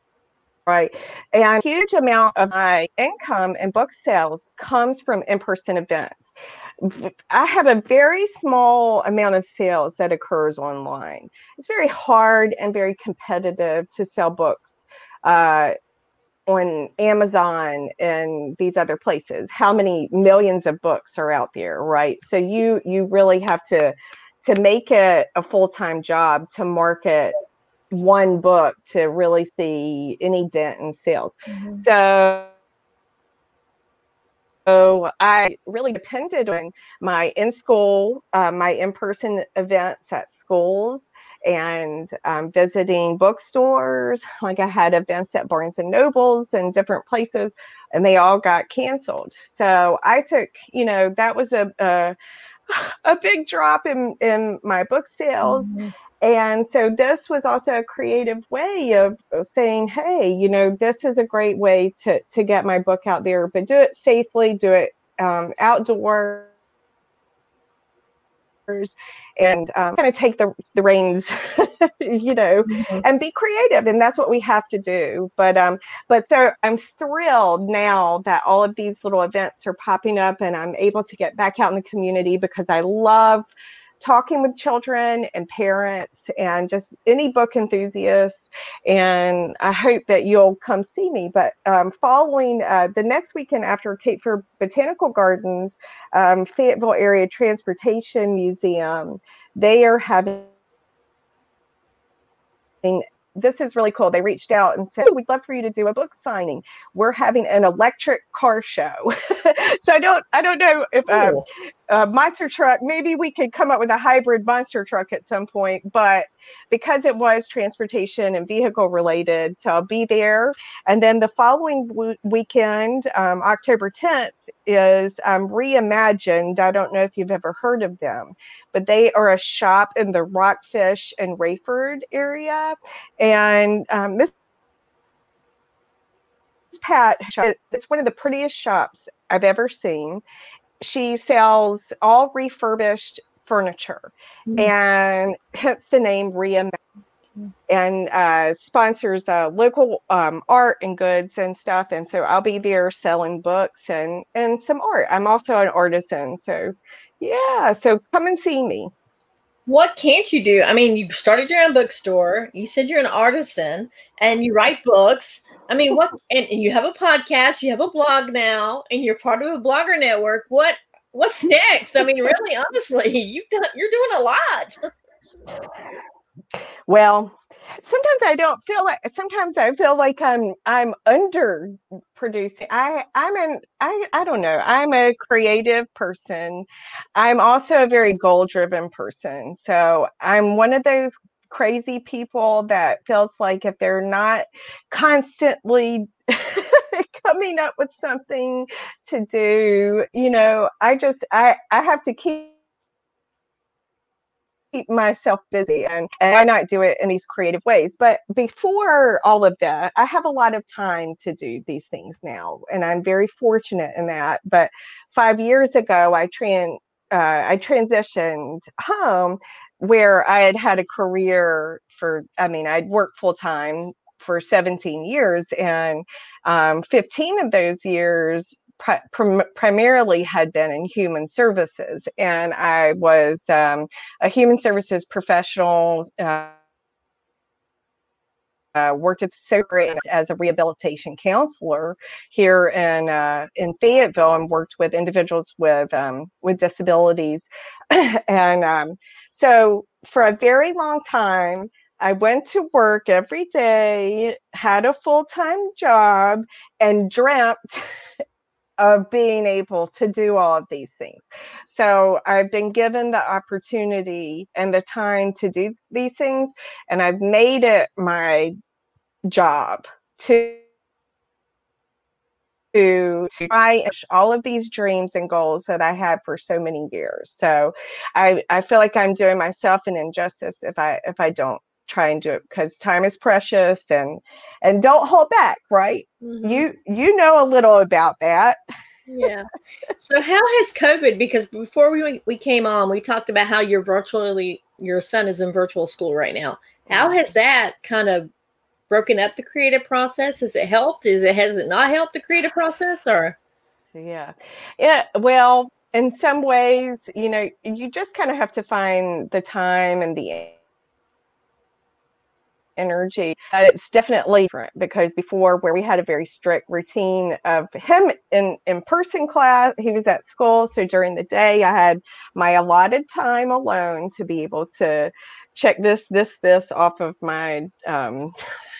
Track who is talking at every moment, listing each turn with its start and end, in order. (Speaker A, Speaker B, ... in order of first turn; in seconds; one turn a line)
Speaker A: 0.7-15.7
Speaker A: 16.5-27.3
Speaker A: 27.9-32.5
Speaker B: 31.5-31.9
Speaker A: 34.7-52.1
Speaker A: 52.7-55.7
Speaker B: 55.4-55.9
Speaker A: 56.2-66.5
Speaker A: 68.7-83.5
Speaker B: 72.7-73.0
Speaker A: 84.0-100.5
Speaker A: 102.8-134.3
Speaker B: 111.1-111.4
Speaker A: 136.7-140.2
Speaker A: 140.8-146.8
Speaker A: 147.7-158.9
Speaker B: 159.7-174.9
Speaker A: 176.9-202.5
Speaker A: 204.7-236.6
Speaker A: 238.8-257.9
Speaker A: 258.8-268.5
Speaker A: 269.3-270.6
Speaker A: 272.7-288.6
Speaker B: 286.2-286.7
Speaker B: 289.1-298.3
Speaker A: 296.9-297.2
Speaker B: 298.9-303.4
Speaker A: 303.9-310.6
Speaker A: 312.8-328.3